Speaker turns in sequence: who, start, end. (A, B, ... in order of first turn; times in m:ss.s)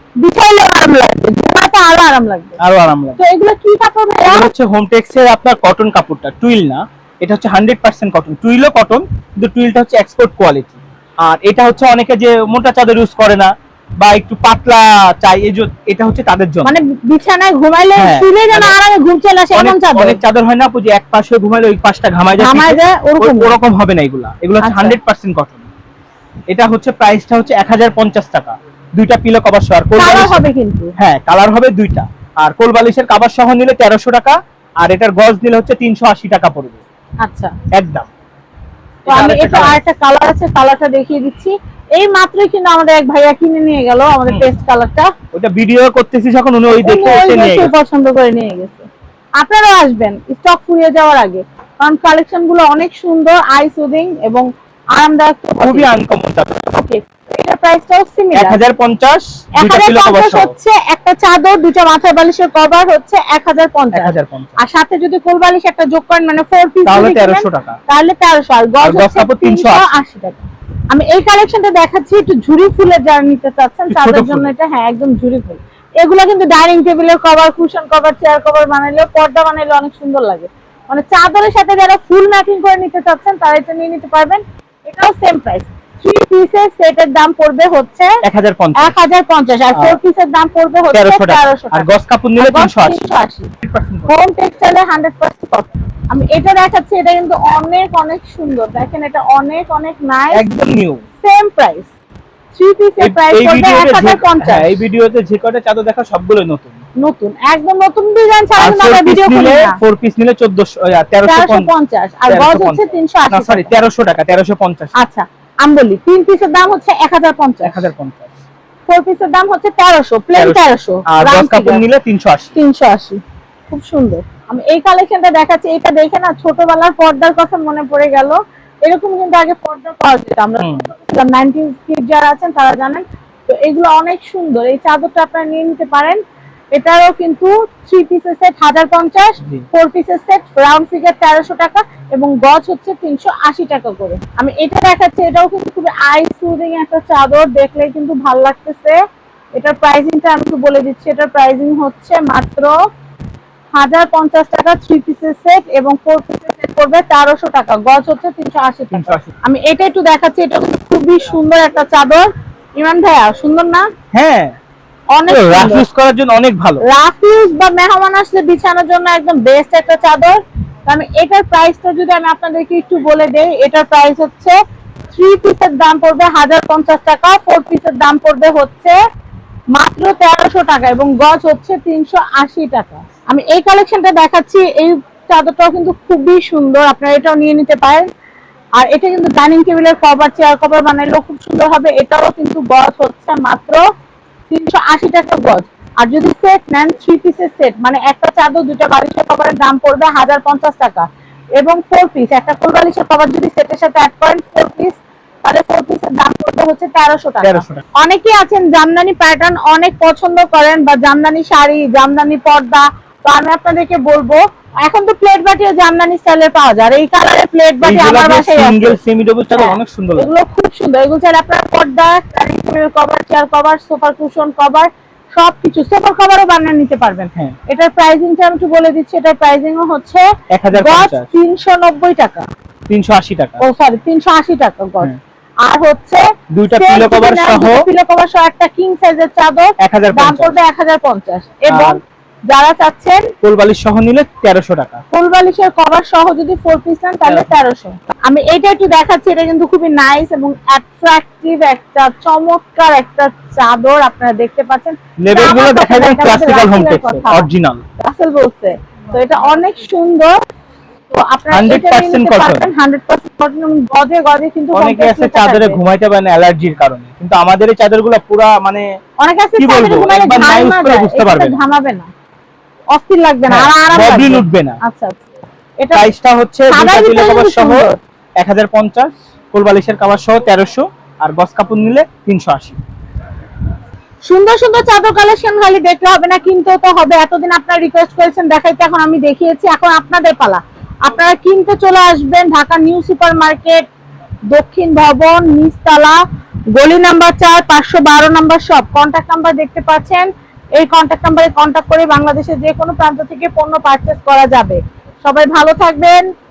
0:00.2-0:02.6 A
0:02.6-0:03.2 B
0:03.2-0:04.5 A
0:04.2-0:16.8 B
0:16.6-0:20.2 A
0:18.0-0:18.8 B
0:19.6-0:25.7 B
0:22.4-0:23.6 A
0:24.6-0:25.0 A
0:26.5-0:30.4 B
0:30.0-0:30.9 A
0:31.0-0:36.8 B
0:37.2-0:37.6 A
0:37.7-0:38.1 B
0:39.0-0:39.8 B
0:39.1-0:45.1 A
0:45.3-0:47.7 B
0:46.8-0:48.9 A
0:49.4-0:55.9 A
0:55.6-0:56.8 B
0:56.7-0:58.6 A
0:58.3-1:00.5 B
0:59.6-1:28.2 A
1:03.9-1:04.6 B
1:06.8-1:07.8 B
1:08.8-1:09.8 B
1:13.9-1:14.5 B
1:28.2-1:29.0 B
1:28.8-1:33.5 A
1:29.7-1:30.0 B
1:30.9-1:34.1 B
1:34.1-1:40.5 A
1:40.3-1:41.0 B
1:41.2-1:41.9 A
1:42.6-1:44.8 A
1:43.0-1:46.8 B
1:47.0-1:49.8 A
1:48.6-1:51.7 B
1:51.2-1:53.7 A
1:52.3-1:54.9 B
1:55.0-1:57.9 A
1:57.6-1:58.3 B
1:58.9-2:01.8 A
2:00.4-2:02.5 B
2:02.6-2:16.2 A
2:10.6-2:10.9 B
2:16.7-2:29.0 A
2:29.6-2:32.8 A
2:33.7-2:43.9 A
2:38.9-2:39.3 B
2:44.1-2:44.6 B
2:45.1-2:45.9 A
2:45.3-2:46.8 B
2:46.8-2:54.6 A
2:55.1-2:59.0 A
2:59.7-3:08.1 A
3:08.8-3:13.8 A
3:14.5-3:21.1 A
3:21.6-3:39.0 A
3:27.4-3:27.8 B
3:37.8-3:40.3 B
3:39.5-3:52.5 A
3:50.5-3:51.3 B
3:52.9-3:53.6 B
3:53.6-3:55.1 A
3:55.6-4:03.3 A
3:56.5-3:57.9 B
3:59.8-4:00.6 B
4:01.7-4:02.0 B
4:03.4-4:05.0 B
4:05.1-4:20.3 A
4:07.3-4:07.5 B
4:15.2-4:17.8 B
4:21.1-4:25.8 A
4:21.5-4:22.7 B
4:24.7-4:28.8 B
4:29.2-4:32.1 A
4:29.6-4:31.6 B
4:32.9-4:35.2 A
4:33.5-4:34.8 B
4:35.8-4:36.1 A
4:35.9-4:42.8 B
4:36.7-4:38.0 A
4:44.3-4:53.9 A
4:54.5-4:56.2 A
4:56.7-5:06.2 A